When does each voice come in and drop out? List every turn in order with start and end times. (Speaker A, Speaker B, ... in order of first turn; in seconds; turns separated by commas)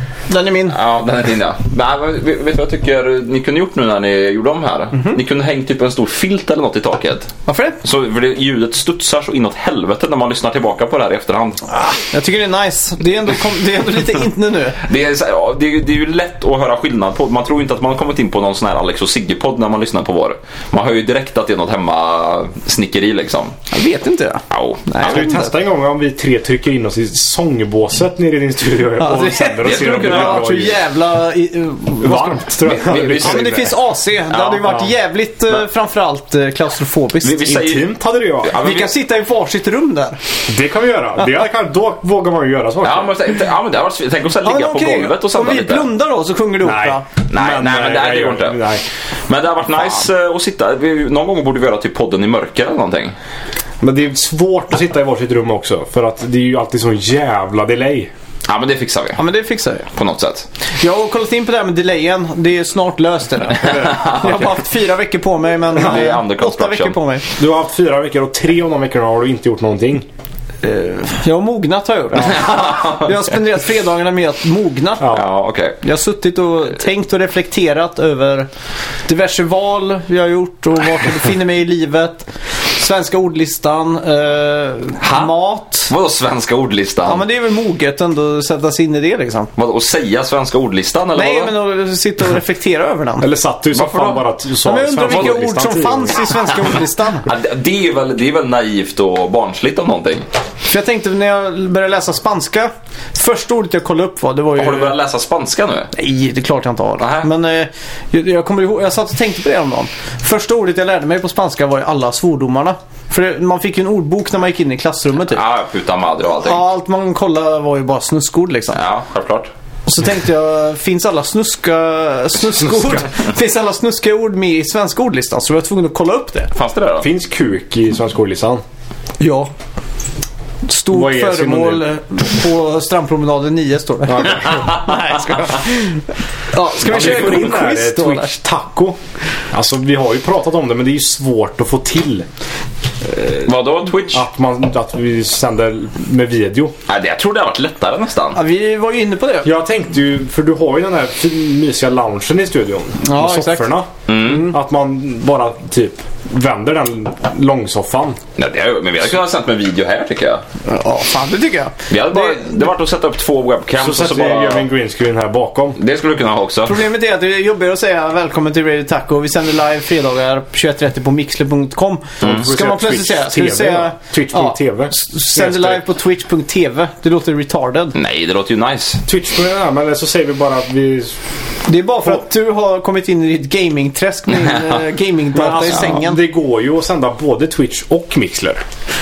Speaker A: 0.3-0.8, Speaker B: 0.7-7.3, Speaker A: 4.9-5.2, Speaker A: 7.5-7.8, Speaker B: 7.8-11.7, Speaker A: 11.7-14.8, Speaker B: 14.8-23.6, Speaker A: 23.7-25.5, Speaker B: 24.5-25.1, Speaker C: 25.0-30.8, Speaker A: 29.0-32.5, Speaker B: 29.6-30.5, Speaker C: 32.0-33.7, Speaker B: 32.6-33.7, Speaker A: 33.2-37.5, Speaker B: 34.3-34.9, Speaker B: 37.2-38.9, Speaker C: 37.4-38.6, Speaker A: 38.6-40.2, Speaker C: 40.5-43.2, Speaker B: 42.8-45.9, Speaker A: 44.4-47.0, Speaker C: 46.6-48.8, Speaker B: 47.3-48.6, Speaker B: 49.3-53.1, Speaker C: 53.8-58.1, Speaker B: 58.5-59.2, Speaker A: 59.2-59.9, Speaker B: 59.9-60.5, Speaker A: 60.8-67.2, Speaker B: 63.6-64.5, Speaker C: 63.6-64.0, Speaker B: 65.7-67.0, Speaker C: 67.4-70.1, Speaker A: 70.6-75.2, Speaker B: 72.2-73.2, Speaker B: 75.1-75.8, Speaker A: 75.8-78.5, Speaker A: 79.1-85.9, Speaker B: 85.0-87.2, Speaker A: 87.0-89.5, Speaker B: 89.5-91.5, Speaker A: 91.1-93.3, Speaker C: 93.2-96.3, Speaker B: 93.7-94.2, Speaker A: 94.6-97.3, Speaker B: 95.1-95.4, Speaker B: 97.2-100.2, Speaker A: 100.7-104.9, Speaker B: 104.5-105.9, Speaker A: 105.9-115.4, Speaker B: 107.0-107.3, Speaker B: 115.3-116.6, Speaker A: 116.4-118.8, Speaker B: 118.7-119.5, Speaker A: 119.9-126.5, Speaker B: 126.5-127.1, Speaker C: 127.0-128.6, Speaker A: 129.2-129.5, Speaker A: 130.6-138.3, Speaker C: 130.9-131.8, Speaker C: 134.1-134.6, Speaker C: 136.8-139.0, Speaker C: 139.5-142.3, Speaker C: 143.0-143.5, Speaker B: 143.4-144.2, Speaker C: 144.1-146.7, Speaker B: 146.9-148.4, Speaker A: 148.3-149.5, Speaker C: 149.4-158.2, Speaker A: 153.0-154.5, Speaker B: 154.1-154.5, Speaker B: 158.4-160.4, Speaker A: 160.7-162.6, Speaker B: 161.9-164.7, Speaker C: 163.8-165.8, Speaker B: 165.8-166.8, Speaker A: 166.6-177.9, Speaker C: 172.2-175.8, Speaker B: 177.9-179.0, Speaker C: 179.1-181.1, Speaker A: 181.7-186.2, Speaker C: 185.3-188.6